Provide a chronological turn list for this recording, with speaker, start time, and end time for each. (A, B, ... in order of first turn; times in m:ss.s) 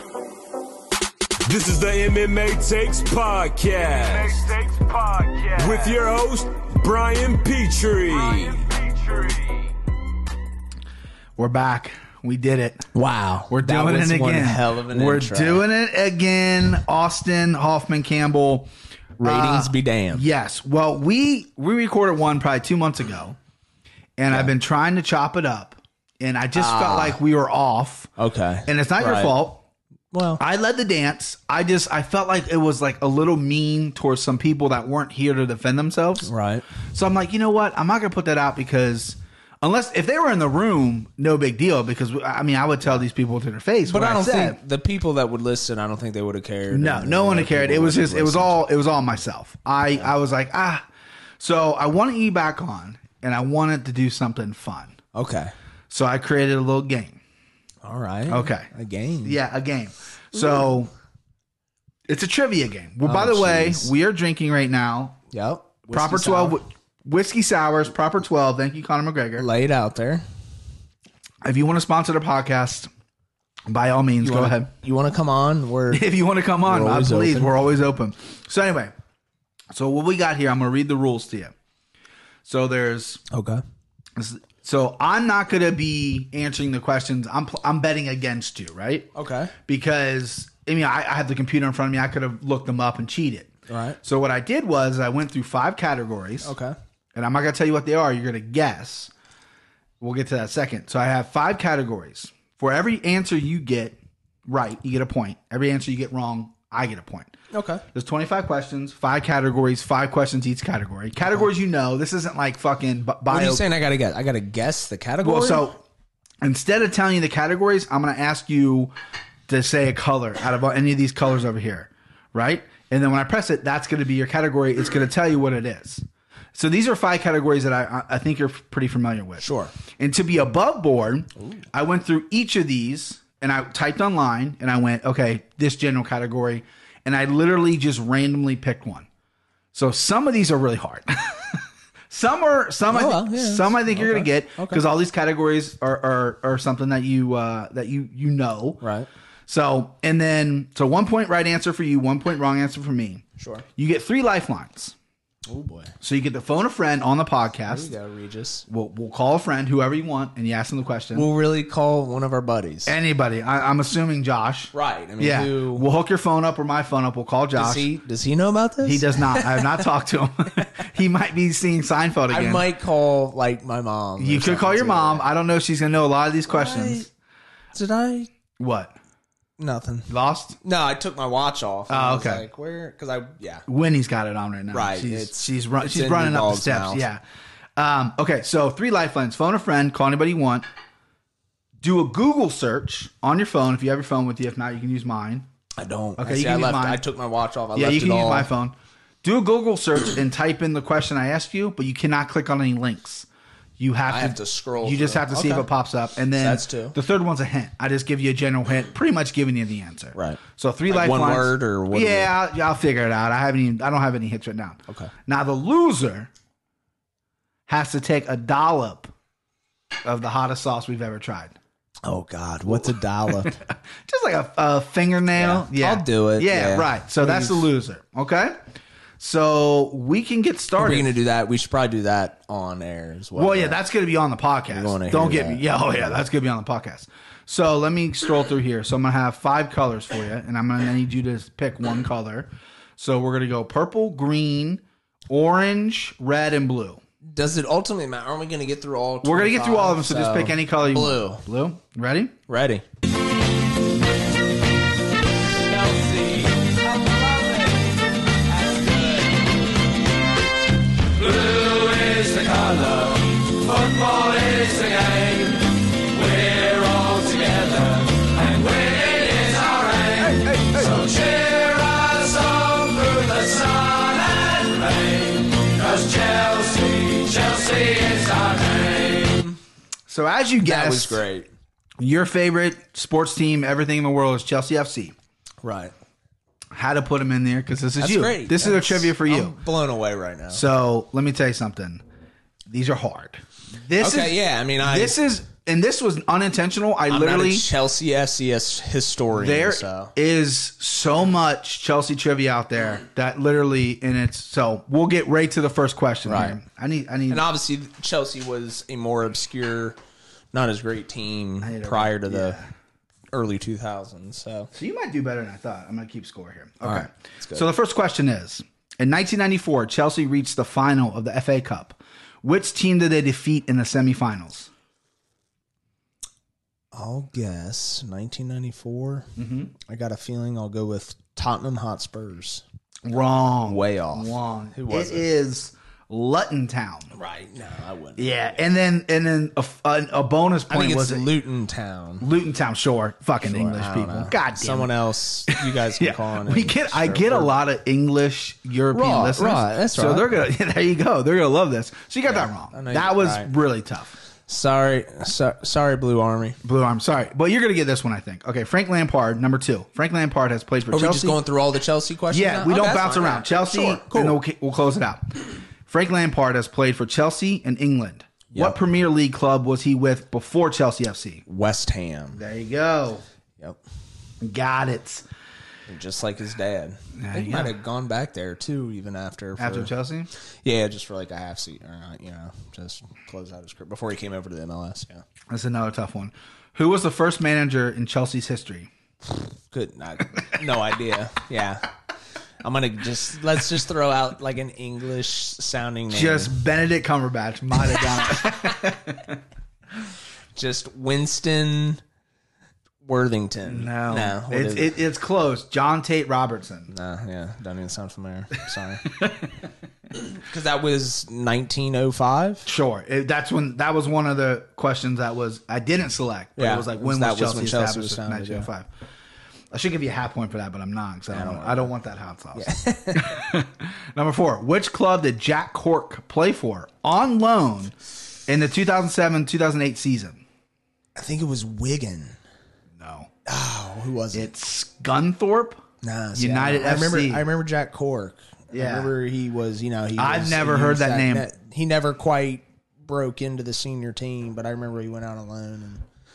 0:01.5-0:09.6 A
0:05.6-0:05.9 B
0:08.1-0:08.6 B
0:11.4-0:12.8 C
0:12.9-0:15.6 B
0:13.5-0:18.7 C
0:19.2-0:20.2 B
0:19.2-0:23.4 C
0:24.2-0:28.1 C
0:26.5-0:27.2 B
0:28.2-0:29.4 B
0:28.7-0:29.6 C
0:30.1-0:30.4 B
0:30.4-0:36.3 C
0:36.2-0:36.6 B
0:36.9-0:44.6 C
0:43.8-0:48.6 B
0:46.7-0:50.8 C
0:51.4-0:55.0 C
0:55.1-0:55.5 B
0:55.9-0:57.2 C
0:57.8-0:59.4 B
0:58.3-0:58.7 C
0:59.2-1:00.9 C
1:02.1-1:05.2 C
1:03.0-1:03.9 B
1:05.3-1:06.6 B
1:05.9-1:09.4 C
1:09.4-1:10.2 B
1:11.4-1:12.9 C
1:13.7-1:14.7 C
1:14.2-1:16.1 B
1:15.9-1:18.9 C
1:16.6-1:17.5 B
1:19.7-1:21.5 C
1:22.4-1:23.2 C
1:23.3-1:23.6 B
1:24.2-1:33.5 C
1:29.1-1:29.5 B
1:33.7-1:34.0 B
1:34.0-1:36.5 C
1:36.4-1:36.7 B
1:37.1-1:39.1 C
1:40.0-1:44.0 C
1:44.5-1:47.3 C
1:47.5-1:47.8 B
1:47.9-1:53.6 C
1:53.3-1:55.7 B
1:55.2-1:55.8 C
1:56.4-1:58.9 C
1:59.5-2:19.1 C
2:09.4-2:09.7 B
2:19.7-2:28.8 C
2:22.9-2:24.8 B
2:28.8-2:29.1 B
2:29.5-2:33.2 C
2:33.4-2:33.6 B
2:33.8-2:34.9 C
2:35.4-2:35.9 B
2:36.0-2:37.9 C
2:37.7-2:38.6 B
2:38.7-2:41.3 C
2:41.1-2:42.9 B
2:42.8-2:47.9 C
2:44.7-2:45.9 B
2:47.6-2:49.8 B
2:48.8-2:52.7 C
2:52.3-2:55.3 B
2:54.2-2:57.1 C
2:56.5-2:57.1 B
2:57.7-2:58.3 B
2:58.6-2:58.9 C
2:59.6-3:03.6 B
3:00.1-3:00.6 C
3:01.9-3:02.4 C
3:03.7-3:07.2 C
3:04.7-3:07.1 B
3:07.8-3:10.6 C
3:11.8-3:15.5 C
3:15.8-3:18.5 B
3:16.2-3:17.0 C
3:17.7-3:23.3 C
3:23.8-3:36.3 C
3:24.1-3:25.7 B
3:26.4-3:27.0 B
3:30.1-3:32.3 B
3:37.7-3:39.1 C
3:40.0-3:41.6 C
3:42.0-3:43.6 B
3:43.4-3:48.6 C
3:45.3-3:47.7 B
3:49.2-3:51.1 C
3:50.8-3:53.8 B
3:53.4-4:07.0 C
3:54.7-3:56.1 B
4:07.2-4:11.4 B
4:09.2-4:12.3 C
4:12.5-4:12.8 B
4:15.6-4:17.9 B
4:18.4-4:19.4 B
4:21.2-4:39.6 B
4:30.2-4:31.0 C
4:40.1-4:41.2 C
4:40.6-4:41.5 B
4:42.0-4:45.1 C
4:45.6-4:45.9 B
4:46.7-4:49.6 C
4:48.0-4:50.6 B
4:50.5-4:52.0 C
4:52.7-4:57.7 C
4:54.0-4:55.2 B
4:57.1-5:00.1 B
4:59.3-5:07.4 C
5:06.2-5:06.6 B
5:07.3-5:10.0 B
5:10.5-5:12.6 B
5:11.6-5:12.7 C
5:13.3-5:14.7 B
5:14.7-5:24.7 C
5:16.8-5:17.7 B
5:26.9-5:29.3 B
5:29.4-5:29.7 C
5:29.8-5:32.6 B
5:33.0-5:37.1 C
5:33.6-5:35.3 B
5:37.1-5:38.6 B
5:38.2-5:41.3 C
5:40.7-5:42.3 B
5:42.2-5:44.9 C
5:43.4-5:47.5 B
5:45.5-5:54.1 C
5:48.9-5:50.3 B
5:52.2-5:53.5 B
5:54.5-5:56.6 B
5:56.6-6:01.4 C
6:00.8-6:04.4 B
6:02.3-6:11.4 C
6:08.5-6:08.8 B
6:11.5-6:12.4 B
6:12.3-6:13.2 C
6:14.4-6:15.2 C
6:15.9-6:19.9 B
6:17.2-6:17.7 C
6:19.6-6:20.3 C
6:20.6-6:25.2 B
6:25.5-6:28.9 C
6:29.2-6:31.9 B
6:32.6-6:36.6 B
6:36.1-6:39.4 C
6:40.5-6:42.0 B
6:43.0-6:45.0 B
6:43.6-6:46.9 C
6:46.9-6:49.2 B
6:50.1-6:52.7 B
6:52.6-6:58.9 C
6:56.6-6:58.7 B
6:59.7-7:08.0 C
7:01.3-7:01.9 B
7:02.5-7:03.4 B
7:08.5-7:10.4 C
7:11.1-7:12.4 B
7:13.0-7:13.3 C
7:13.4-7:14.5 B
7:14.3-7:15.8 C
7:16.0-7:26.0 B
7:16.3-7:17.4 C
7:18.7-7:19.1 C
7:20.2-7:21.5 C